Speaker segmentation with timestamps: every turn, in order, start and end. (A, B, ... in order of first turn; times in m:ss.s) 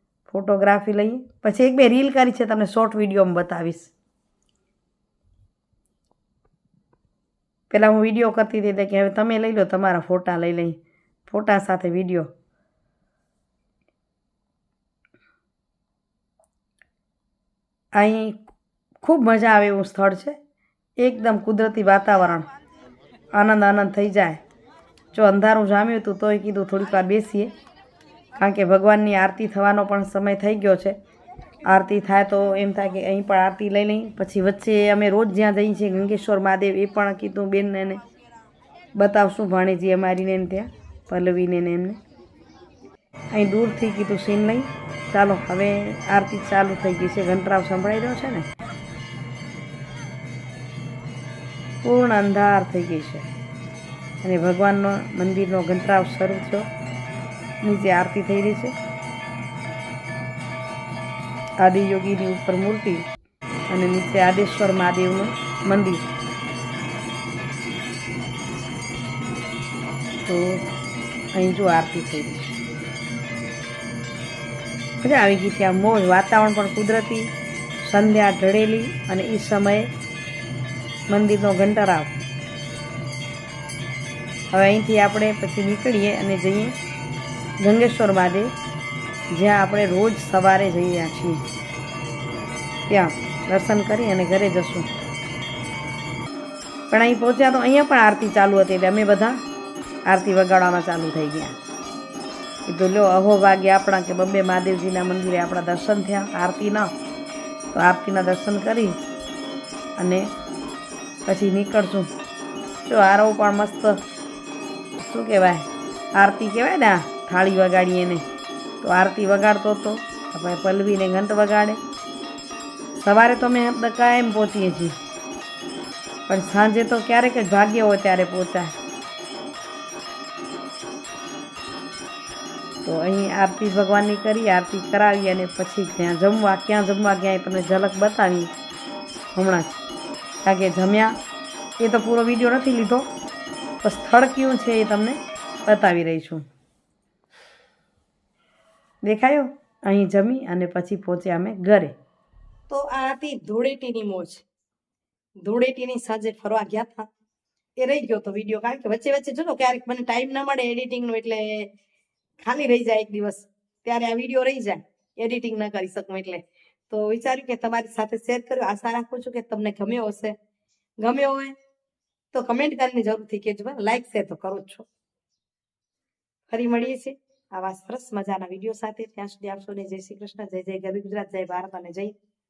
0:00.3-0:03.9 A
0:07.7-0:12.3 A
0:18.0-0:18.4 A
0:19.0-0:20.4 A
0:21.0-0:22.5 A
0:23.3-0:24.4 A
0:25.1-0:27.5 A
0:28.4-0:31.0 A
0:31.6-0:38.0 A
0:39.0-0:42.0 A
0:43.3-0:48.5 A
0:51.8-0:53.3 A
0:54.2-0:56.7 A
0:57.6-0:58.7 A
1:01.6-1:03.0 A
1:03.7-1:06.0 A
1:10.2-1:10.6 A
1:11.3-1:12.5 A
1:15.0-1:17.3 A
1:17.8-1:19.9 A
1:21.1-1:22.1 A
1:24.5-1:26.8 A
1:27.6-1:28.5 A
1:29.3-1:31.4 A
1:32.9-1:34.9 A
1:36.9-1:39.4 A
1:40.1-1:41.5 A
1:42.6-1:46.9 A
1:47.7-1:49.0 A
1:50.0-1:50.3 A
1:51.2-1:52.1 A
1:52.8-1:54.0 A
1:55.0-1:58.2 A
1:58.8-2:01.8 A
2:03.0-2:05.0 A
2:06.3-2:08.7 A
2:12.8-2:18.5 A
2:19.3-2:19.8 A
2:20.4-2:21.2 A
2:21.8-2:23.1 A
2:23.8-2:26.4 A
2:29.0-2:31.9 A
2:32.7-2:34.4 A
2:35.4-2:37.1 A
2:37.8-2:41.7 A
2:42.4-2:50.3 A
2:51.0-2:51.5 A
2:52.3-2:54.9 A
2:56.5-3:02.1 A